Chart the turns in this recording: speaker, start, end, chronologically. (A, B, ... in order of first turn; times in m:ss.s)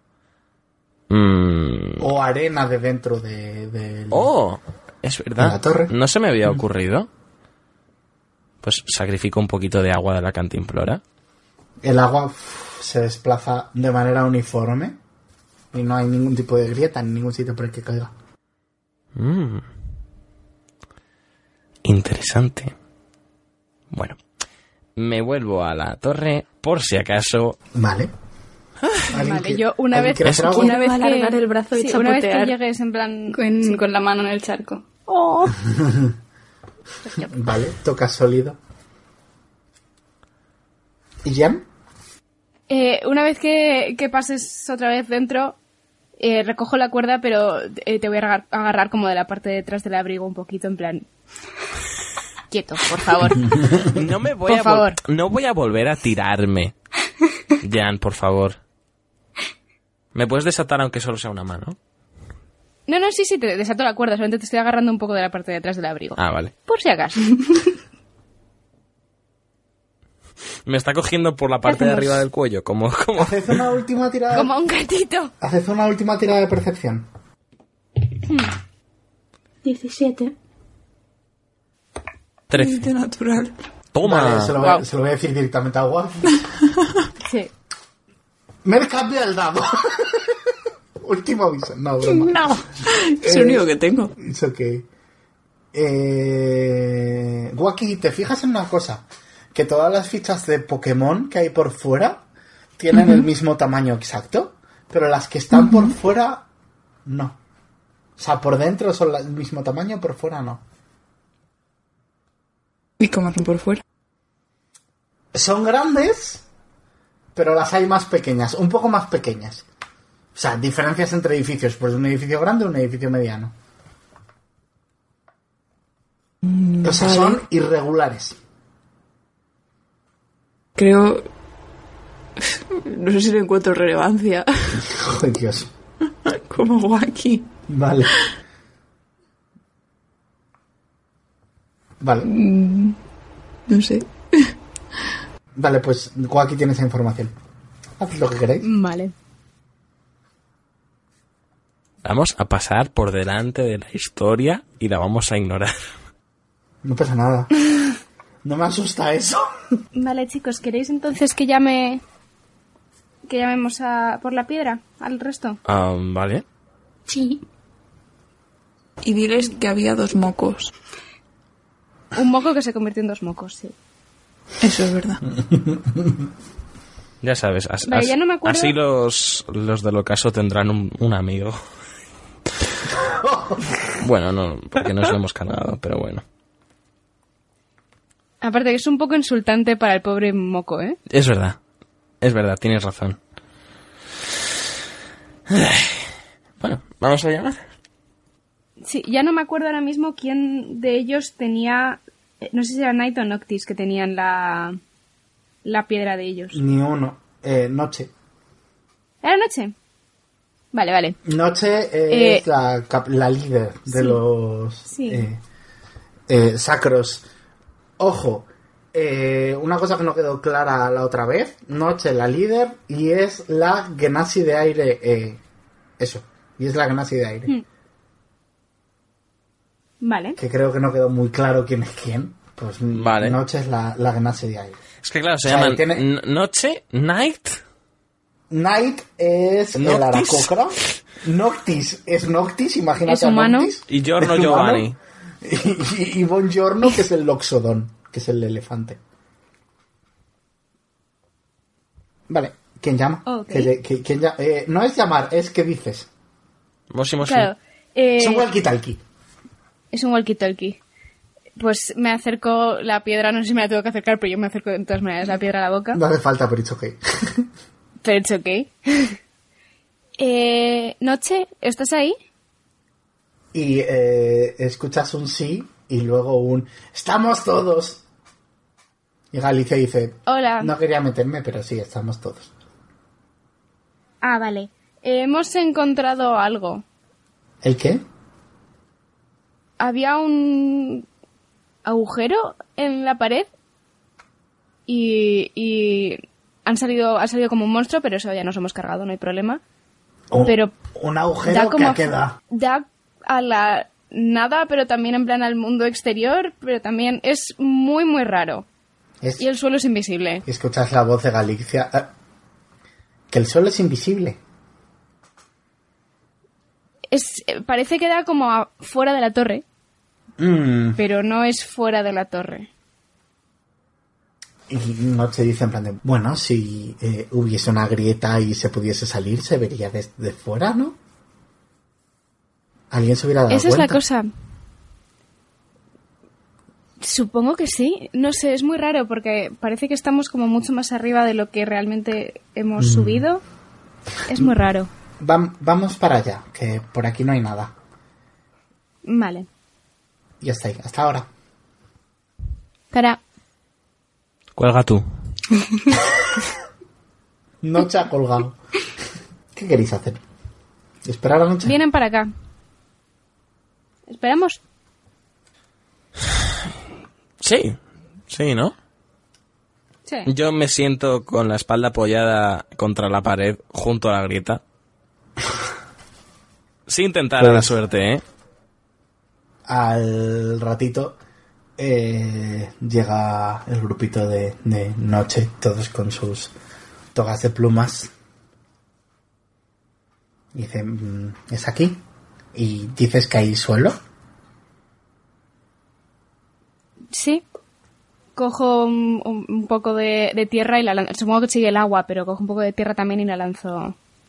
0:01.1-0:02.1 A
0:02.0-0:04.3 B
0:04.1-0:07.1 A
0:05.4-0:05.9 B
0:08.6-0:11.0 A
0:11.8-0:15.0 B
0:15.7-0:18.1 B
0:19.2-0:19.7 A
0:21.8-0:22.7 A
0:23.9-0:24.2 A
0:25.0-0:27.6 A
0:27.8-0:28.1 B
0:28.8-0:29.1 A
0:29.1-0:30.7 B
0:29.1-0:33.8 C
0:30.2-0:30.5 A
0:30.5-0:32.6 D
0:33.3-0:34.8 D
0:35.1-0:35.6 C
0:35.7-0:36.2 B
0:37.3-0:38.6 B
0:41.2-0:41.7 B
0:42.7-0:45.6 C
0:46.2-0:51.1 C
0:52.5-0:53.9 C
0:53.8-0:56.7 A
0:54.5-0:55.0 C
0:57.6-0:58.6 A
1:00.2-1:01.8 A
1:02.9-1:07.7 C
1:06.2-1:06.5 A
1:10.7-1:13.6 A
1:11.7-1:12.2 C
1:13.2-1:14.5 B
1:14.3-1:15.3 C
1:15.4-1:17.1 B
1:18.2-1:18.5 C
1:19.6-1:20.4 D
1:22.5-1:22.8 A
1:22.5-1:23.6 E
1:23.9-1:24.6 A
1:24.0-1:26.4 B
1:27.2-1:27.5 C
1:28.6-1:30.4 B
1:31.0-1:32.6 B
1:32.0-1:34.2 E
1:33.2-1:34.9 B
1:35.7-1:42.2 B
1:42.8-1:46.5 B
1:42.9-1:43.2 E
1:45.6-1:45.9 E
1:47.0-1:47.4 B
1:48.2-1:50.6 B
1:53.0-1:53.8 E
1:55.3-1:56.4 B
1:57.4-1:59.7 B
2:00.4-2:03.6 B
2:06.4-2:07.4 E
2:06.8-2:08.4 B
2:10.8-2:11.3 E
2:12.4-2:14.8 E
2:14.8-2:15.7 B
2:16.2-2:17.5 E
2:17.7-2:18.2 B
2:22.0-2:22.3 B
2:22.2-2:23.0 E
2:23.7-2:24.5 E
2:25.6-2:27.3 B
2:28.0-2:28.7 B
2:28.6-2:29.1 C
2:32.0-2:35.7 A
2:36.8-2:37.5 B
2:38.4-2:39.5 B
2:40.0-2:42.0 C
2:43.3-2:45.6 C
2:45.7-2:46.4 A
2:47.1-2:47.4 D
2:49.0-2:50.7 E
2:52.1-2:53.8 C
2:54.6-2:55.2 E
2:55.5-2:56.1 B
2:57.2-3:01.6 A
2:57.9-2:58.8 C
3:03.0-3:03.8 B
3:04.0-3:06.2 A
3:08.4-3:11.0 C
3:11.1-3:11.6 A
3:12.2-3:13.2 A
3:15.5-3:16.1 A
3:16.6-3:17.6 A
3:18.8-3:24.8 C
3:25.6-3:26.6 C
3:26.5-3:28.1 B
3:29.2-3:29.8 C
3:30.7-3:31.2 C
3:31.2-3:35.4 B
3:32.1-3:32.4 C
3:33.9-3:34.2 C
3:34.9-3:35.3 C
3:36.3-3:37.3 B
3:38.0-3:45.4 B
3:46.0-3:47.5 B
3:50.0-3:50.4 C
3:50.4-3:54.8 B
3:52.9-3:53.4 A
3:55.0-3:57.6 A
3:55.4-3:56.1 B
3:58.5-4:04.9 B
3:59.8-4:00.5 A
4:03.1-4:03.7 C
4:03.9-4:05.0 A
4:05.4-4:09.0 B
4:12.3-4:16.1 B
4:13.3-4:13.7 C
4:16.9-4:17.5 A
4:17.2-4:18.5 C
4:18.2-4:19.0 B
4:19.9-4:20.8 C
4:21.6-4:26.0 C
4:25.9-4:27.5 B
4:28.0-4:29.2 C
4:30.2-4:32.2 C
4:33.5-4:38.0 B
4:39.3-4:42.5 B
4:40.3-4:40.7 C
4:44.2-4:46.8 C
4:47.6-4:48.0 B
4:49.8-4:51.0 C
4:51.8-4:53.5 C
4:54.9-4:59.6 C
5:00.3-5:02.4 B
5:00.4-5:00.7 C
5:01.4-5:08.7 C
5:09.4-5:10.4 C
5:10.5-5:12.1 B
5:13.3-5:14.4 B
5:17.1-5:19.6 C
5:20.4-5:21.0 B
5:21.0-5:22.7 C
5:24.7-5:31.0 B
5:32.9-5:34.0 B
5:33.5-5:34.3 C
5:37.0-5:43.4 C
5:42.8-5:43.3 B
5:44.3-5:44.9 C
5:45.2-5:47.7 B
5:49.0-5:49.5 C
5:50.4-5:51.3 B
5:52.9-5:53.2 C
5:54.6-5:55.0 A
5:57.6-5:58.6 B
5:59.5-6:00.2 B
6:01.0-6:01.8 B
6:01.6-6:02.3 C
6:04.1-6:04.6 C
6:07.4-6:07.8 A
6:08.3-6:08.7 A
6:10.3-6:14.6 A
6:16.9-6:18.2 A
6:17.4-6:17.8 B
6:19.7-6:21.2 B
6:21.8-6:26.5 B
6:27.1-6:28.1 B
6:30.5-6:32.0 B
6:32.5-6:34.0 B
6:37.1-6:37.4 C
6:38.4-6:44.0 C